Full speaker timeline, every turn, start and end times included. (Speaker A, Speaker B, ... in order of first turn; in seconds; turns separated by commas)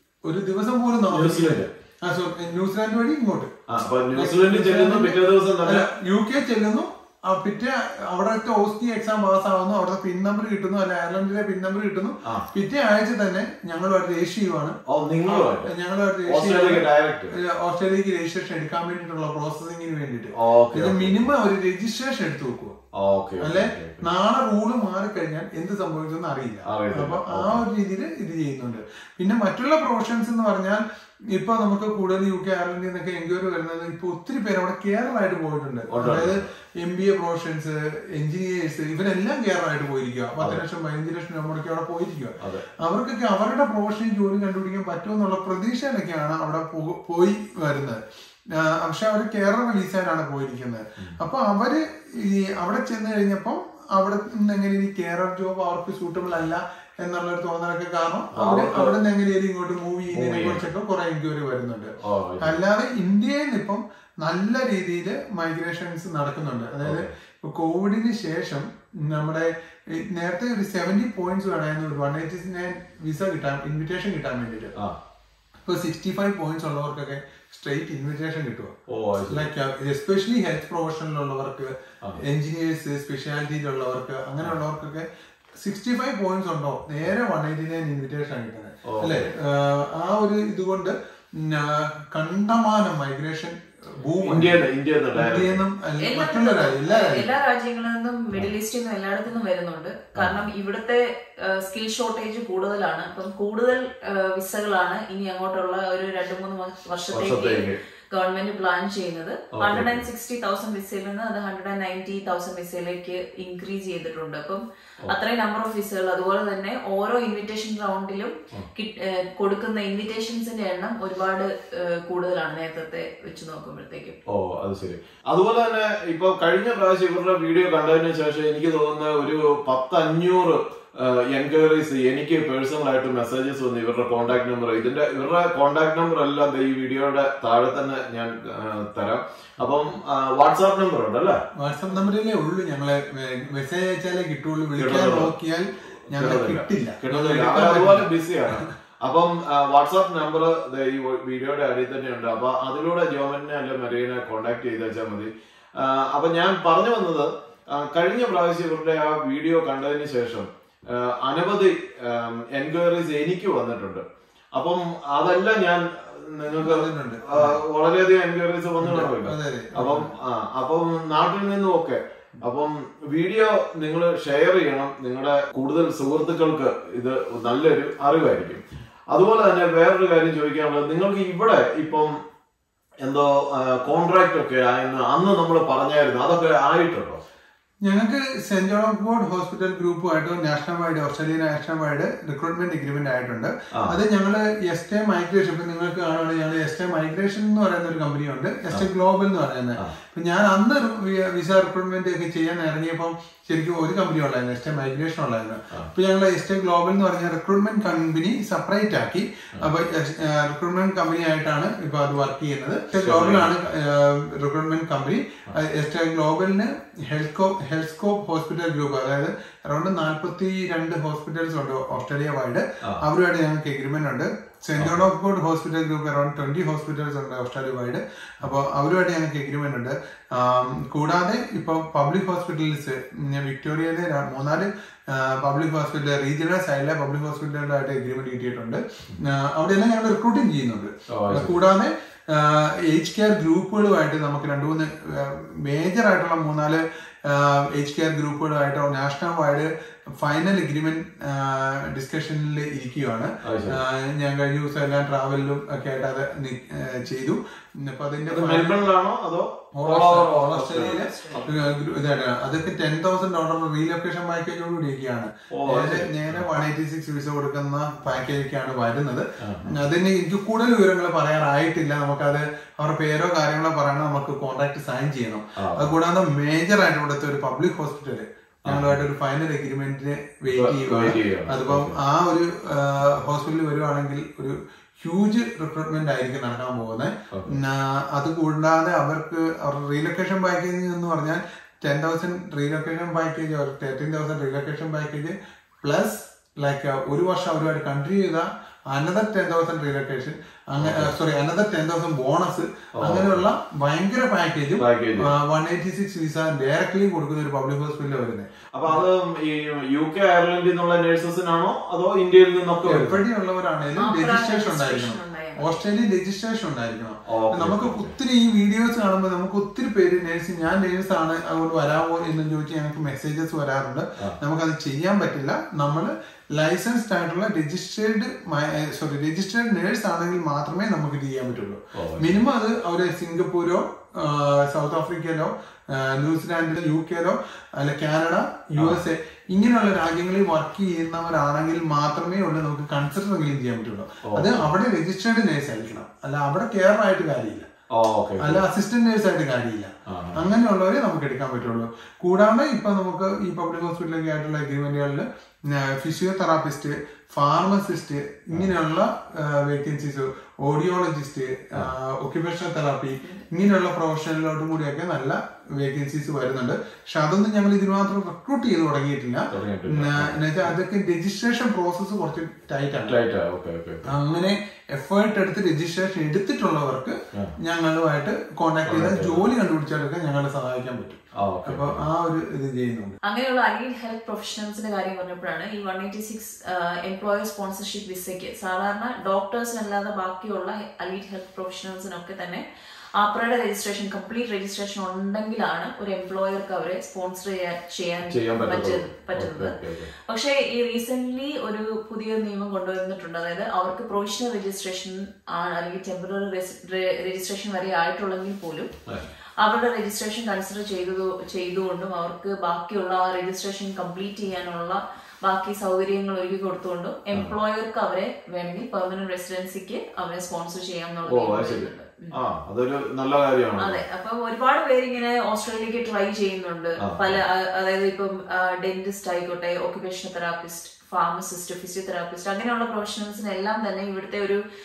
Speaker A: 0.2-3.5, Speaker B: 1.1-1.7, Speaker B: 3.7-5.9, Speaker A: 4.1-22.8, Speaker B: 14.9-15.7, Speaker B: 16.2-17.3, Speaker B: 20.3-21.3, Speaker B: 22.9-24.0, Speaker A: 23.4-30.8, Speaker B: 26.6-27.6, Speaker A: 31.3-48.0, Speaker B: 35.9-36.5, Speaker B: 42.4-42.6, Speaker A: 48.6-69.5, Speaker B: 58.3-58.9, Speaker B: 60.1-60.7, Speaker B: 62.0-62.6, Speaker B: 66.8-67.1, Speaker A: 70.0-74.7, Speaker A: 75.7-78.7, Speaker B: 78.9-79.5, Speaker A: 79.3-85.0, Speaker A: 85.6-94.6, Speaker B: 88.8-89.3, Speaker B: 94.2-95.6, Speaker A: 95.2-97.3, Speaker C: 96.0-124.2, Speaker B: 100.2-100.5, Speaker B: 107.1-107.8, Speaker B: 109.5-110.1, Speaker B: 124.3-141.4, Speaker A: 141.6-148.7, Speaker B: 144.8-145.3, Speaker B: 146.1-164.0, Speaker B: 164.5-182.1, Speaker A: 166.6-167.6, Speaker A: 168.8-170.1, Speaker B: 183.0-187.2, Speaker A: 187.8-249.7, Speaker B: 212.9-213.5, Speaker B: 224.8-225.0, Speaker B: 241.1-241.5, Speaker A: 250.2-258.8, Speaker B: 253.4-253.8, Speaker B: 258.3-261.7, Speaker A: 259.8-309.1, Speaker C: 260.7-261.5, Speaker B: 265.5-266.5, Speaker B: 269.4-269.8, Speaker B: 275.6-275.9, Speaker B: 278.6-279.0, Speaker B: 280.5-281.9, Speaker B: 287.3-287.6, Speaker B: 300.8-301.1, Speaker B: 303.0-303.4, Speaker B: 304.8-305.3, Speaker B: 308.7-313.2, Speaker A: 312.8-347.7, Speaker C: 314.0-315.8, Speaker B: 317.3-318.1, Speaker B: 331.9-332.4, Speaker B: 344.2-344.7, Speaker B: 347.9-348.6, Speaker A: 348.4-355.2, Speaker B: 350.1-350.4, Speaker A: 355.8-373.2, Speaker B: 369.5-370.4, Speaker B: 373.0-374.1, Speaker A: 374.0-383.1, Speaker B: 378.8-379.5, Speaker B: 381.4-382.1, Speaker C: 383.2-392.6, Speaker C: 393.2-408.9, Speaker B: 398.3-400.1, Speaker C: 409.6-422.4, Speaker B: 421.2-424.0, Speaker C: 423.8-434.6, Speaker B: 427.0-427.4